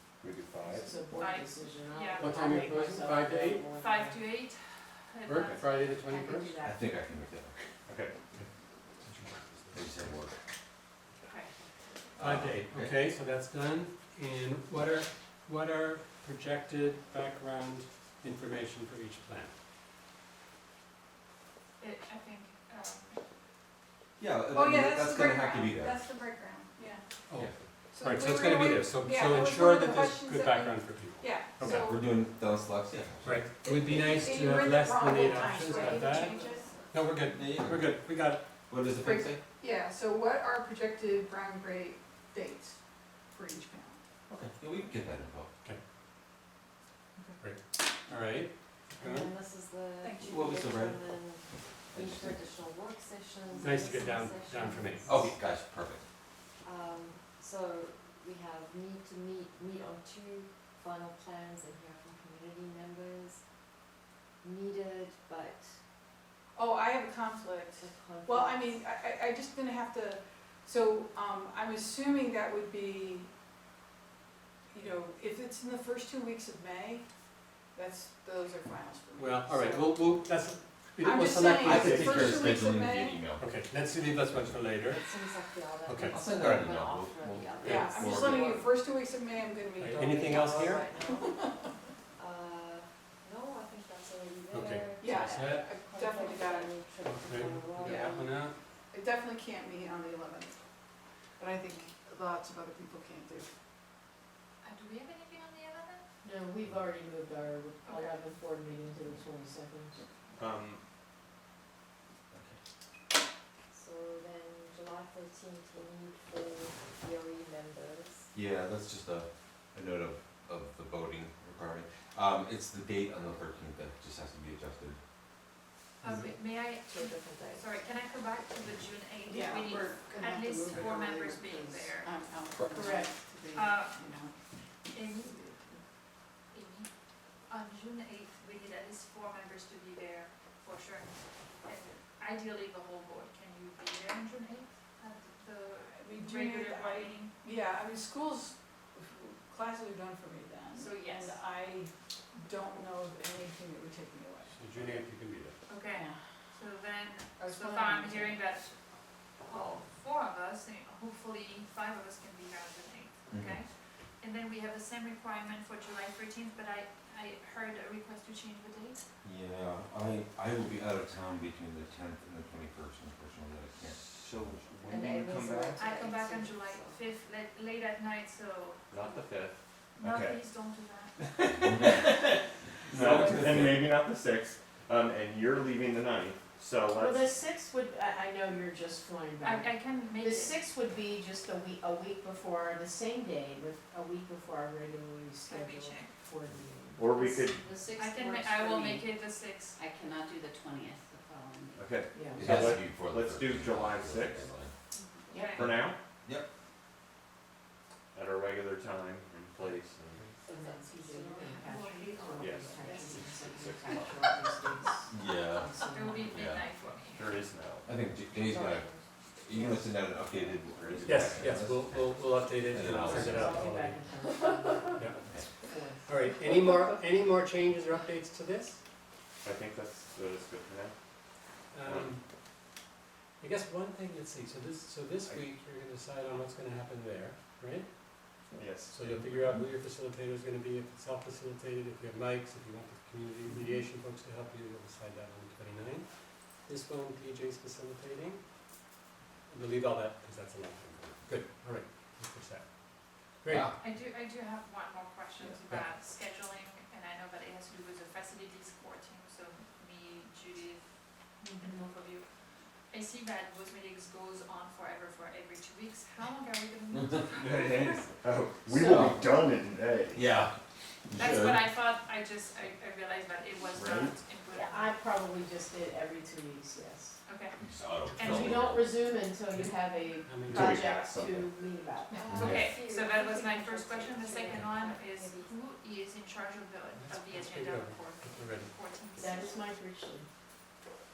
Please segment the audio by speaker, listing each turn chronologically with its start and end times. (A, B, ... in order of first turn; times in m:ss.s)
0:00.2-0:01.0 A
0:00.6-0:04.2 B
0:01.1-0:02.5 C
0:02.2-0:03.7 D
0:03.7-0:05.9 C
0:05.3-0:06.6 D
0:06.1-0:06.8 B
0:06.6-0:07.5 E
0:07.9-0:08.2 A
0:09.0-0:09.8 D
0:09.7-0:10.4 E
0:11.2-0:11.5 C
0:12.2-0:13.0 E
0:12.2-0:19.5 D
0:21.8-0:23.2 C
0:24.2-0:26.0 E
0:24.6-0:27.0 F
0:27.3-0:31.9 D
0:27.9-0:32.0 F
0:31.7-0:33.4 E
0:33.2-0:36.4 D
0:33.6-0:36.7 F
0:36.9-0:38.4 D
0:37.2-0:38.1 E
0:38.6-0:39.4 E
0:39.0-0:44.0 F
0:44.3-0:45.5 E
0:47.4-0:49.3 D
0:49.0-0:55.3 G
0:50.0-0:50.5 F
0:50.2-0:51.0 E
0:51.9-0:52.4 E
0:53.6-0:55.3 D
0:55.1-0:56.0 E
0:56.6-1:03.6 G
1:04.4-1:05.8 G
1:06.6-1:13.3 F
1:07.8-1:08.9 G
1:14.7-1:20.0 F
1:19.2-1:22.3 D
1:21.0-1:23.3 F
1:21.5-1:23.5 E
1:23.3-1:25.3 D
1:24.9-1:28.8 G
1:25.9-1:26.7 D
1:26.1-1:28.6 E
1:27.7-1:31.5 F
1:29.8-1:30.9 D
1:30.1-1:38.5 G
1:34.5-1:35.7 D
1:35.0-1:36.7 F
1:37.0-1:38.6 D
1:38.8-1:43.5 F
1:44.6-1:46.0 C
1:46.2-1:50.0 B
1:47.8-1:48.2 C
1:50.3-1:50.8 A
1:52.3-1:52.6 E
1:53.7-1:58.3 G
1:58.3-2:05.0 E
2:06.0-2:12.2 C
2:06.2-2:07.8 G
2:09.3-2:13.1 F
2:10.6-2:11.0 G
2:12.7-2:13.1 B
2:12.8-2:14.2 C
2:14.9-2:15.4 C
2:15.4-2:15.6 F
2:16.5-2:16.9 C
2:17.5-2:27.4 C
2:26.0-2:34.6 F
2:30.7-2:31.4 C
2:34.4-2:35.6 D
2:35.7-2:49.0 C
2:37.4-2:38.5 F
2:43.3-2:43.6 E
2:49.2-2:54.0 E
2:53.8-2:55.9 A
2:54.9-2:57.0 G
2:55.8-2:59.2 C
2:58.9-3:00.4 A
3:00.0-3:01.2 C
3:01.2-3:07.4 A
3:01.6-3:02.0 E
3:02.9-3:03.9 E
3:06.9-3:17.5 B
3:09.4-3:10.7 C
3:15.5-3:16.2 C
3:17.0-3:17.6 A
3:17.6-3:19.0 G
3:18.0-3:19.8 C
3:19.8-3:21.8 H
3:21.8-3:24.5 A
3:22.1-3:22.7 B
3:22.3-3:24.7 E
3:25.1-3:25.4 H
3:25.3-3:25.8 C
3:25.5-3:26.0 A
3:25.6-3:26.5 E
3:28.1-3:30.2 A
3:30.5-3:36.6 B
3:30.9-3:33.3 H
3:32.4-3:32.8 A
3:33.4-3:34.3 A
3:35.1-3:36.7 E
3:35.8-3:37.4 C
3:37.1-3:38.0 A
3:37.8-3:43.7 E
3:38.2-3:39.7 G
3:40.3-3:41.7 A
3:41.0-3:44.0 D
3:43.0-3:46.8 B
3:44.2-3:44.5 G
3:45.2-3:45.5 E
3:46.0-3:48.8 D
3:49.4-3:50.9 A
3:51.7-3:52.2 D
3:51.8-3:52.2 A
3:53.4-4:08.4 D
3:58.5-3:59.1 A
4:09.5-4:12.6 D
4:13.4-4:13.8 D
4:13.8-4:28.1 C
4:15.4-4:15.9 D
4:26.9-4:27.2 E
4:27.4-4:30.4 A
4:28.6-4:29.3 B
4:28.8-4:29.3 E
4:30.1-4:30.5 E
4:31.1-4:31.7 E
4:31.2-4:34.9 C
4:33.7-4:34.2 A
4:34.6-4:37.2 B
4:37.3-4:38.6 C
4:37.6-4:38.9 E
4:38.2-4:42.3 B
4:39.5-4:40.7 D
4:40.5-4:41.5 A
4:42.1-4:45.6 G
4:42.2-4:49.7 C
4:42.3-4:42.7 E
4:46.9-4:48.8 D
4:49.2-4:50.3 B